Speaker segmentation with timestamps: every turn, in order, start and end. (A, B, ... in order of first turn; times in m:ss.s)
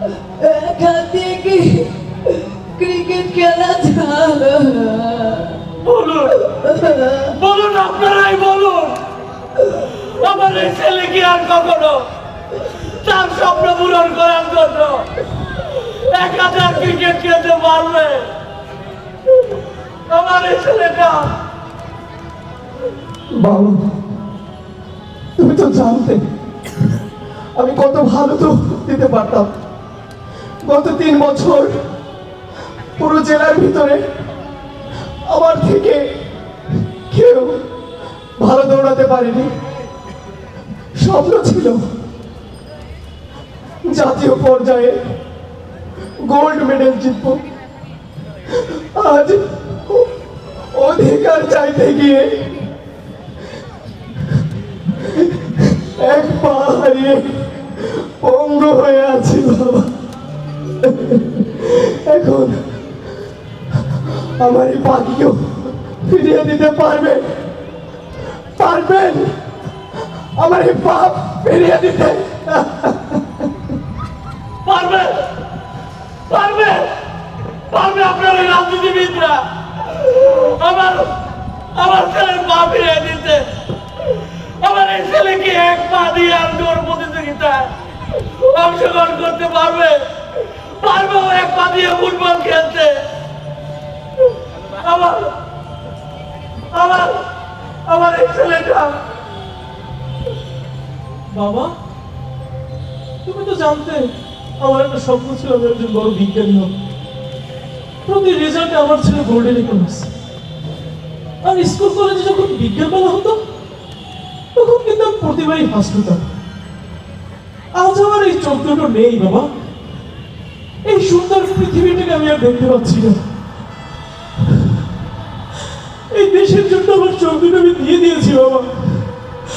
0:00.4-0:05.5 A
0:05.8-0:06.5 B
0:06.6-0:07.3 A
0:07.2-0:09.0 B
0:10.0-0:12.0 B
0:13.0-0:15.1 B
0:16.1-0:18.3 B
0:20.1-0:21.3 B
0:23.3-0:23.8 C
0:25.4-0:26.2 C
0:27.6-0:29.5 C
0:30.6-0:31.8 C
0:33.0-0:34.0 C
0:35.3-0:36.0 C
0:37.1-0:37.6 C
0:38.4-0:39.5 C
0:41.0-0:41.8 C
0:43.9-0:45.0 C
0:46.2-0:47.4 C
0:49.0-0:50.1 C
0:50.7-0:52.5 C
0:55.2-0:59.9 C
1:00.8-1:02.6 C
1:04.4-1:07.3 C
1:08.6-1:09.3 C
1:10.4-1:13.2 C
1:14.6-1:15.2 B
1:16.3-1:16.9 B
1:17.7-1:19.4 B
1:20.2-1:21.2 B
1:21.8-1:23.5 B
1:24.6-1:27.7 B
1:28.5-1:30.0 B
1:30.8-1:33.0 B
1:34.8-1:35.3 B
1:36.7-1:37.2 B
1:37.9-1:39.0 B
1:41.3-1:41.7 D
1:43.2-1:46.8 D
1:48.0-1:50.1 D
1:51.4-1:53.4 D
1:54.6-1:56.3 D
1:57.7-1:59.5 D
2:00.8-2:03.2 D
2:06.1-2:08.7 D